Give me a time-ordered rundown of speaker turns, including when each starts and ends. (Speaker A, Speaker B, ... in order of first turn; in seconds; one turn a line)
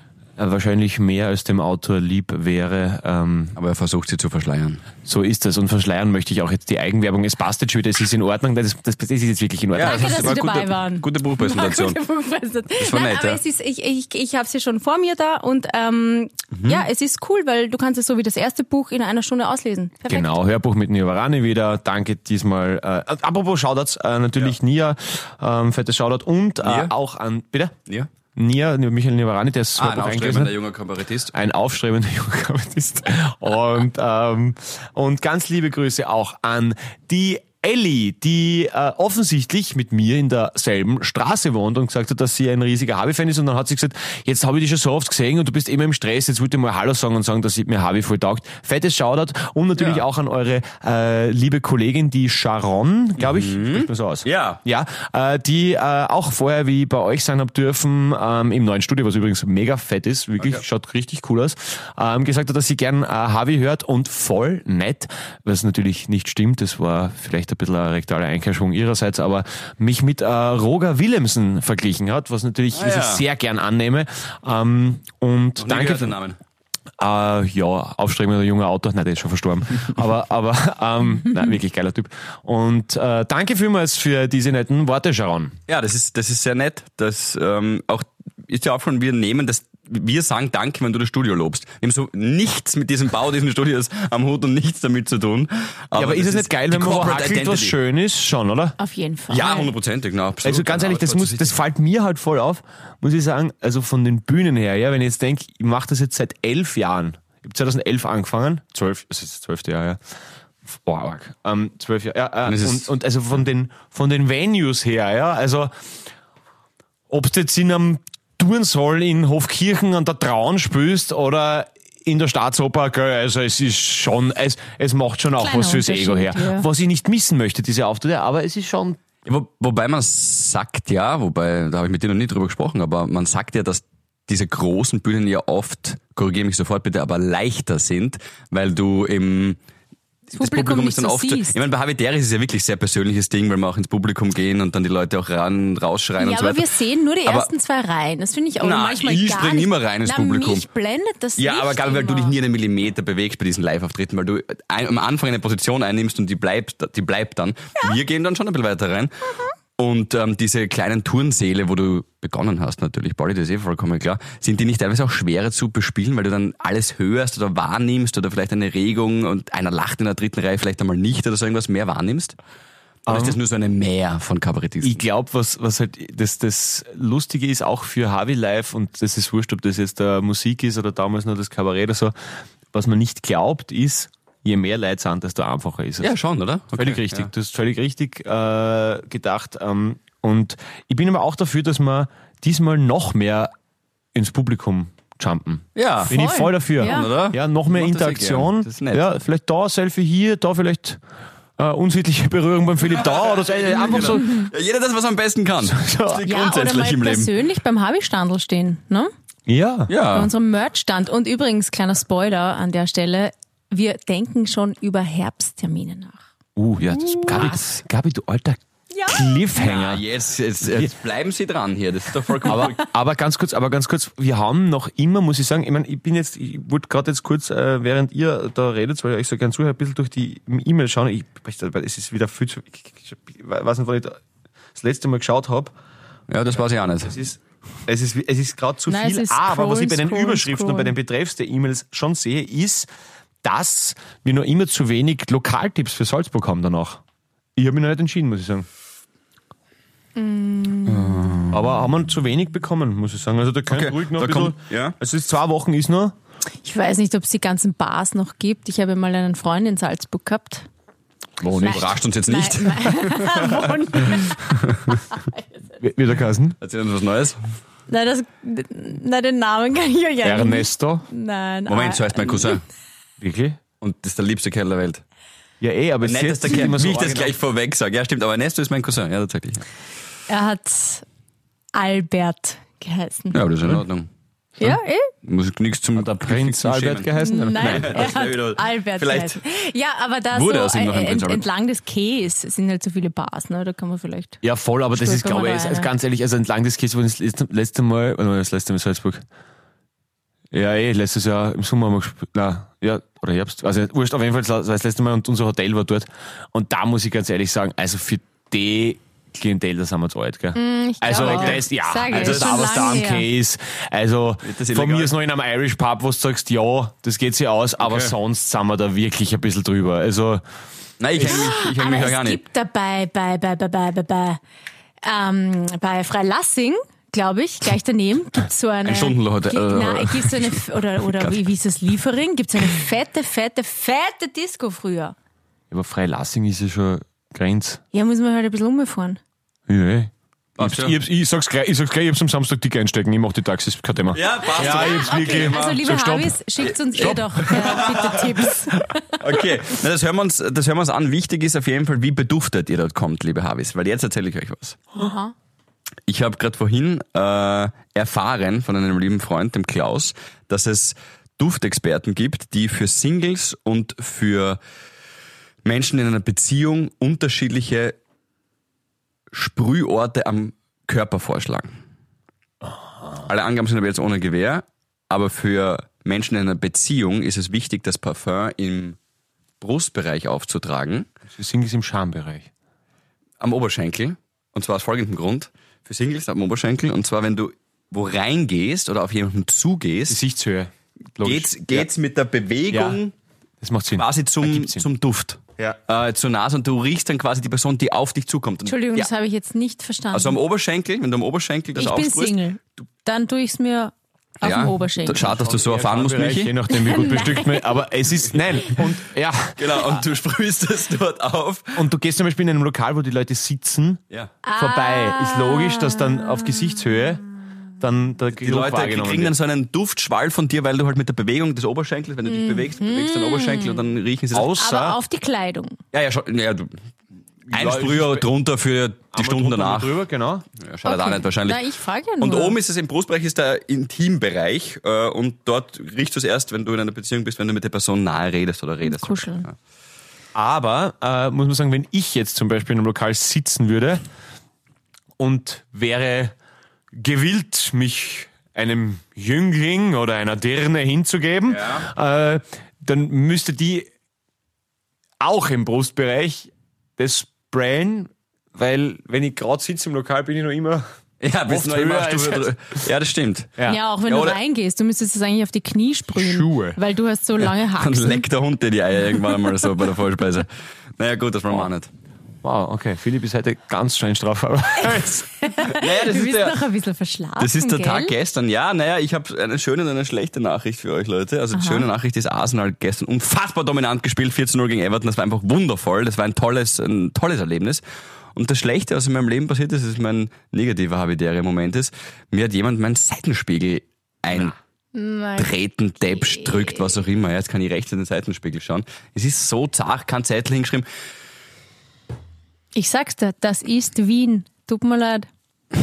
Speaker A: 0.4-3.5
Speaker B: 3.5-4.8
Speaker A: 5.0-10.4
Speaker B: 9.7-12.0
Speaker C: 9.8-20.3
Speaker B: 12.8-13.4
Speaker B: 16.5-16.8
Speaker A: 20.1-27.7
Speaker B: 26.6-26.9
Speaker A: 28.3-30.5
Speaker B: 29.8-31.3
Speaker A: 31.3-76.2
Speaker B: 49.8-50.0
Speaker B: 53.2-54.6
Speaker B: 72.7-73.2
Speaker B: 75.6-76.4
Speaker A: 77.0-85.5
Speaker B: 85.7-97.7
Speaker A: 95.9-98.8
Speaker C: 98.8-99.7
Speaker B: 99.3-101.6
Speaker A: 100.4-110.0
Speaker A: 110.7-115.7
Speaker B: 112.5-112.9
Speaker A: 117.1-129.0
Speaker C: 125.4-126.7
Speaker B: 129.2-139.6
Speaker B: 140.3-146.7
Speaker C: 140.3-141.6
Speaker C: 146.2-152.3
Speaker B: 147.2-147.5
Speaker B: 148.6-150.6
Speaker B: 151.4-172.3
Speaker A: 173.1-173.4
Speaker B: 173.1-175.0
Speaker A: 174.8-182.1
Speaker A: 182.7-186.1
Speaker B: 186.0-187.3
Speaker A: 186.8-193.5
Speaker A: 194.1-201.0
Speaker B: 195.8-196.2
Speaker C: 196.1-197.1
Speaker B: 196.8-199.1
Speaker A: 201.6-204.5
Speaker B: 202.9-207.3
Speaker A: 205.6-206.2
Speaker C: 206.2-209.1
Speaker A: 209.5-209.9
Speaker B: 209.9-210.3
Speaker C: 210.1-216.2
Speaker A: 216.6-220.0
Speaker B: 217.2-217.7
Speaker C: 218.9-219.4
Speaker B: 219.5-222.8
Speaker A: 220.6-220.9
Speaker A: 222.4-234.2
Speaker A: 234.7-235.7
Speaker B: 236.3-237.1
Speaker A: 237.1-242.9
Speaker C: 238.9-240.9
Speaker A: 243.4-247.0
Speaker A: 247.6-248.7
Speaker C: 250.2-251.4
Speaker B: 250.8-251.7
Speaker A: 251.5-256.1
Speaker B: 253.7-254.9
Speaker C: 256.6-260.7
Speaker A: 261.4-261.9
Speaker C: 261.5-265.8
Speaker B: 261.6-264.9
Speaker A: 265.8-266.6
Speaker B: 266.6-267.4
Speaker C: 267.9-272.6
Speaker A: 270.2-271.0
Speaker B: 271.7-272.6
Speaker A: 273.2-273.6
Speaker B: 273.8-275.0
Speaker A: 275.6-277.4
Speaker B: 276.0-279.6
Speaker C: 280.3-281.0
Speaker C: 281.7-283.4
Speaker B: 283.3-284.1
Speaker C: 284.6-285.1
Speaker B: 285.2-289.4
Speaker A: 285.9-288.1
Speaker C: 287.2-294.4
Speaker B: 290.3-291.4
Speaker A: 294.4-299.2
Speaker C: 294.9-295.9
Speaker A: 300.5-320.4
Speaker C: 310.5-313.3
Speaker B: 311.1-313.0
Speaker B: 314.4-315.1
Speaker B: 317.8-318.1
Speaker B: 321.0-322.4
Speaker A: 321.2-321.5
Speaker C: 321.2-324.4
Speaker C: 325.0-335.1
Speaker B: 328.8-331.4
Speaker A: 335.7-337.8
Speaker C: 337.9-339.2
Speaker A: 339.7-346.4
Speaker B: 340.6-341.0
Speaker B: 344.1-345.8
Speaker C: 344.5-349.2
Speaker B: 346.9-348.4
Speaker A: 347.0-347.7
Speaker B: 349.2-354.8
Speaker C: 355.0-355.3
Speaker B: 356.1-364.6
Speaker B: 365.6-367.9
Speaker B: 369.3-371.7
Speaker B: 373.2-379.0
Speaker B: 379.6-381.1
Speaker A: 381.3-382.5
Speaker B: 383.4-390.2
Speaker A: 390.1-391.9
Speaker B: 391.2-393.1
Speaker A: 392.7-393.0
Speaker A: 393.6-394.9
Speaker B: 394.0-399.1
Speaker C: 398.6-400.4
Speaker B: 400.1-402.3
Speaker C: 401.8-405.3
Speaker B: 404.4-406.6
Speaker A: 405.2-410.0
Speaker C: 406.7-407.7
Speaker B: 409.6-411.8
Speaker A: 411.8-414.0
Speaker C: 414.4-416.5
Speaker A: 414.6-417.2
Speaker A: 417.8-419.3
Speaker B: 418.4-424.5
Speaker C: 422.2-423.8
Speaker A: 424.3-425.0
Speaker C: 424.6-425.8
Speaker B: 425.9-426.7
Speaker A: 427.5-428.3
Speaker B: 427.5-429.9
Speaker A: 429.1-430.4
Speaker B: 430.6-431.6
Speaker C: 430.8-432.6
Speaker B: 432.2-439.5
Speaker C: 438.8-439.5
Speaker A: 440.3-444.0
Speaker A: 445.2-446.3
Speaker A: 446.9-453.9
Speaker B: 451.5-451.9
Speaker A: 455.2-460.8
Speaker B: 461.2-464.4
Speaker A: 461.5-462.5
Speaker C: 463.7-468.2
Speaker A: 466.1-466.8
Speaker B: 467.4-471.9
Speaker A: 472.4-475.3
Speaker C: 475.0-478.1
Speaker B: 475.6-476.6
Speaker B: 477.4-487.8
Speaker C: 481.5-481.9
Speaker B: 488.3-494.6
Speaker C: 494.9-497.0
Speaker B: 495.4-500.9
Speaker C: 502.7-505.3